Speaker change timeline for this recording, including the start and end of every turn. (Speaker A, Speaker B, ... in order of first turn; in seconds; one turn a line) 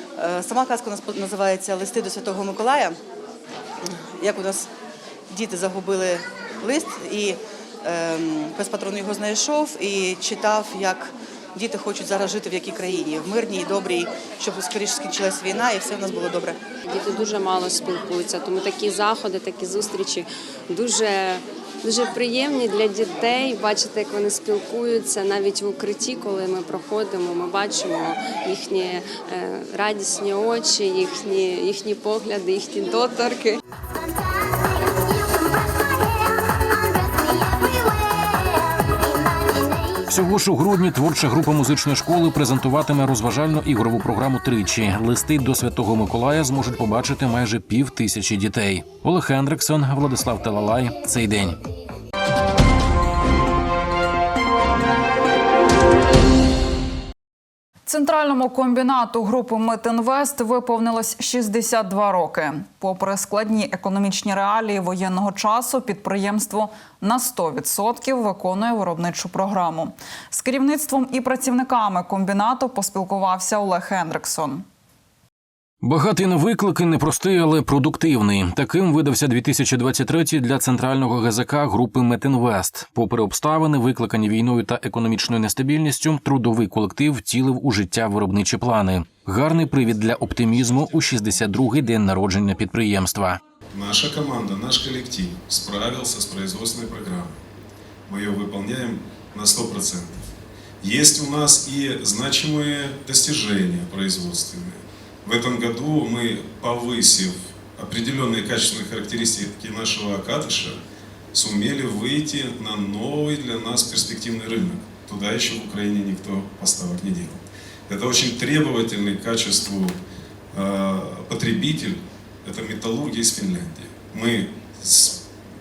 Speaker A: 0.2-3.0
Speaker A: 3.9-4.7
Speaker A: 5.3-16.6
Speaker B: 16.9-33.6
Speaker C: 40.1-51.6
Speaker D: 57.9-74.6
Speaker C: 75.8-93.4
Speaker E: 93.7-97.3
Speaker E: 98.1-100.2
Speaker E: 100.8-110.8
Speaker E: 111.3-120.0
Speaker E: 120.5-125.2